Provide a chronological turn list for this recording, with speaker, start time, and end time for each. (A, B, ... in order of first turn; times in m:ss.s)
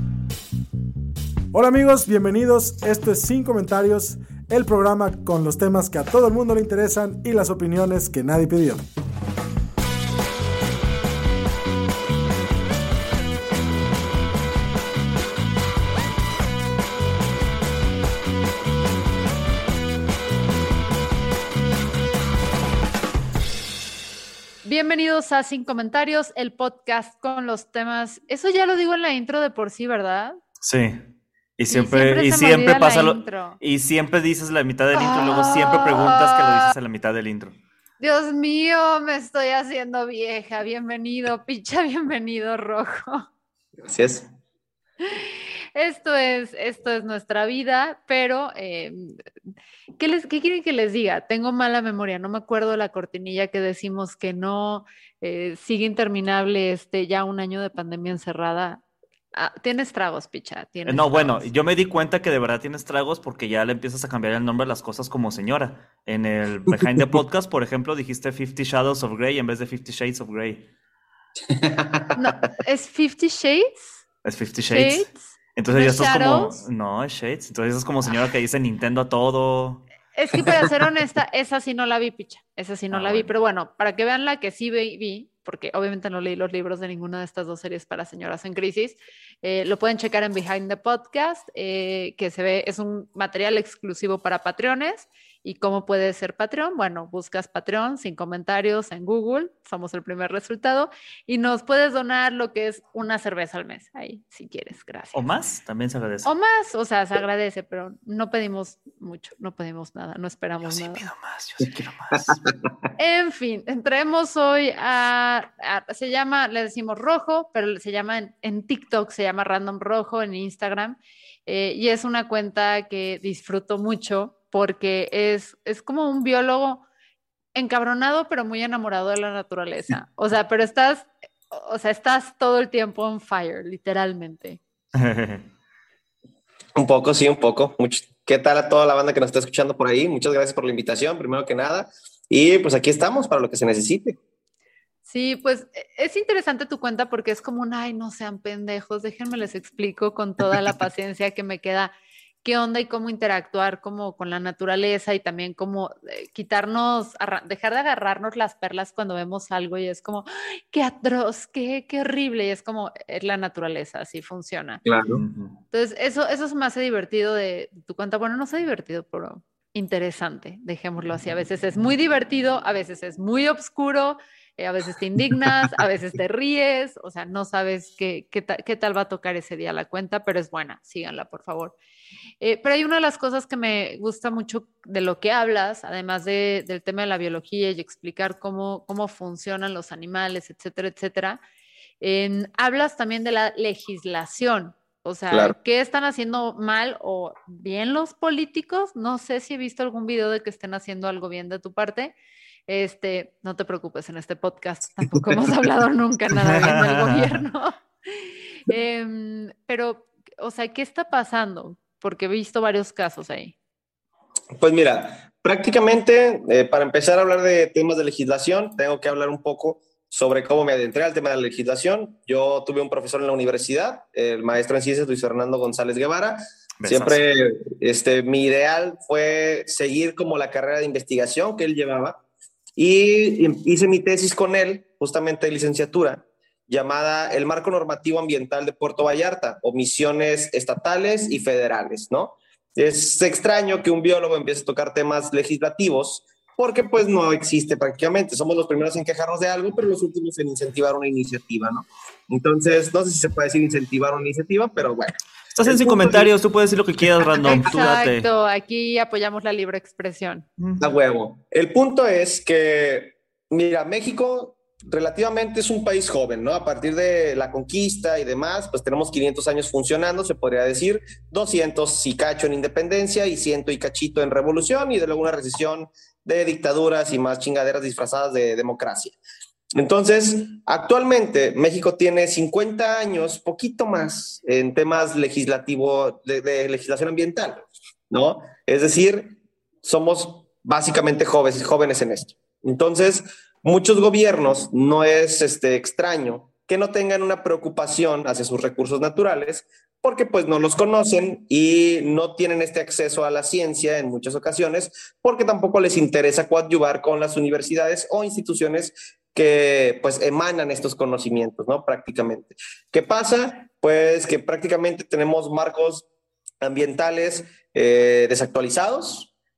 0:01.5-0:08.9 A
0:24.6-0:30.4 B
0:30.6-0:37.6 C
0:31.7-0:33.6 B
0:34.9-0:36.7 B
0:38.0-0:43.2 B
0:43.8-0:44.3 D
0:45.0-0:49.2 B
0:50.0-0:58.8 B
0:59.3-1:01.5 B
1:00.8-1:10.7 C
1:11.5-1:12.2 D
1:12.1-1:13.9 B
1:14.2-1:19.8 C
1:14.7-1:16.6 B
1:20.1-1:45.2 B
1:22.9-1:23.3 C
1:45.1-1:46.3 C
1:46.2-1:51.0 B
1:50.7-1:52.4 C
1:53.0-2:06.8 B
2:07.5-2:14.6 B
2:14.9-2:15.4 C
2:16.8-2:24.2 D
2:25.1-2:44.8 B
2:44.8-2:45.2 D
2:45.1-2:45.6 C
2:45.7-3:01.7 B
3:02.4-3:11.4 B
3:12.0-3:22.1 B
3:15.3-3:15.5 D
3:22.7-3:33.5 B
3:26.6-3:27.4 C
3:34.6-3:52.2 D
3:46.8-3:47.2 C
3:52.8-4:16.3 D
4:15.5-4:18.3 C
4:17.4-4:20.4 B
4:20.8-4:39.2 D
4:39.8-5:16.0 D
5:16.6-5:19.3 D